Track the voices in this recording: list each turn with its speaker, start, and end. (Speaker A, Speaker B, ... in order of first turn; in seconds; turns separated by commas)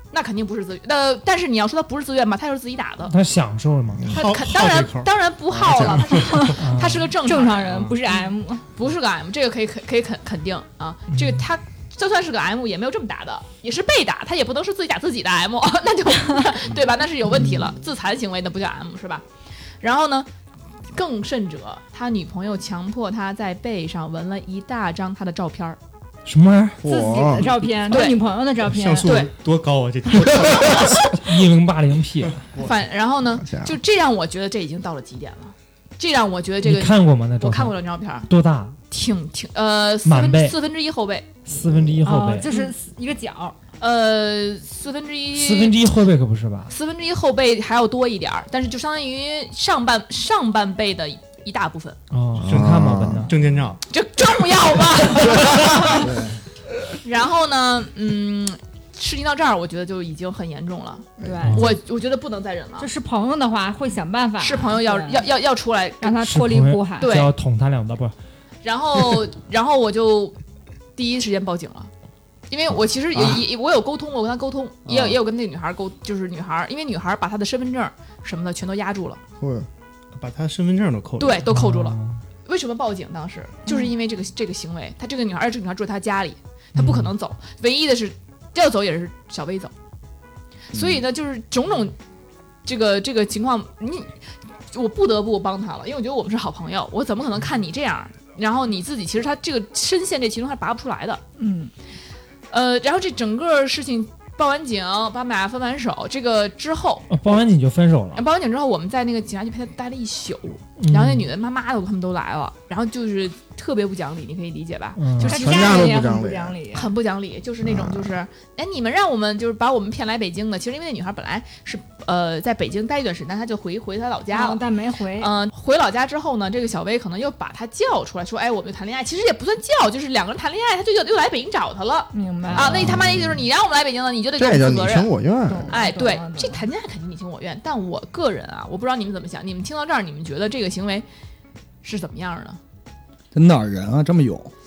Speaker A: 0.1-3.1, Speaker B: 3.1-4.2, Speaker C: 4.1-5.1, Speaker A: 4.1-7.9, Speaker D: 5.6-6.0, Speaker C: 6.0-6.5, Speaker B: 6.5-7.1, Speaker E: 7.2-8.7, Speaker C: 7.7-8.0, Speaker A: 8.8-19.2, Speaker B: 11.1-11.4, Speaker A: 19.8-20.3, Speaker A: 20.9-25.8, Speaker B: 26.2-26.8, Speaker D: 26.8-27.5, Speaker E: 26.8-29.1, Speaker A: 27.9-28.2, Speaker C: 28.6-30.9, Speaker A: 29.0-29.3, Speaker B: 31.2-32.5, Speaker A: 32.6-38.3, Speaker D: 33.3-33.8, Speaker B: 36.6-37.7, Speaker B: 38.3-38.8, Speaker A: 38.9-41.4, Speaker B: 40.0-40.5, Speaker B: 41.4-42.5, Speaker E: 42.0-43.5, Speaker A: 43.8-45.8, Speaker B: 45.3-46.7, Speaker A: 46.7-52.0, Speaker B: 52.1-53.3, Speaker D: 52.4-53.3, Speaker C: 52.5-53.8, Speaker A: 53.9-56.1, Speaker F: 55.8-56.4, Speaker A: 57.0-62.9, Speaker D: 61.2-61.6, Speaker E: 61.2-61.7, Speaker E: 62.8-65.2, Speaker A: 64.4-66.2, Speaker E: 66.0-67.2, Speaker B: 66.2-68.1, Speaker A: 67.0-67.3, Speaker A: 68.6-70.4, Speaker A: 71.0-71.9, Speaker A: 72.5-79.2, Speaker C: 74.9-75.2, Speaker D: 79.4-79.7, Speaker C: 80.1-81.5, Speaker A: 81.2-89.7, Speaker B: 81.5-82.2, Speaker B: 86.8-87.1, Speaker A: 90.7-92.0, Speaker F: 90.7-91.0, Speaker A: 92.7-94.1, Speaker A: 94.7-101.2, Speaker E: 101.4-101.7, Speaker A: 102.5-107.4, Speaker B: 107.1-108.2, Speaker A: 108.2-115.9, Speaker B: 110.8-111.3, Speaker B: 115.0-115.4, Speaker E: 115.2-116.9, Speaker D: 115.3-116.6, Speaker A: 116.7-124.6, Speaker D: 117.6-118.0, Speaker E: 124.3-125.3, Speaker A: 125.2-135.1, Speaker E: 132.1-133.0, Speaker D: 132.6-133.4, Speaker D: 134.4-135.7, Speaker E: 135.5-136.6, Speaker A: 135.7-141.1, Speaker A: 141.8-142.6, Speaker F: 143.3-144.5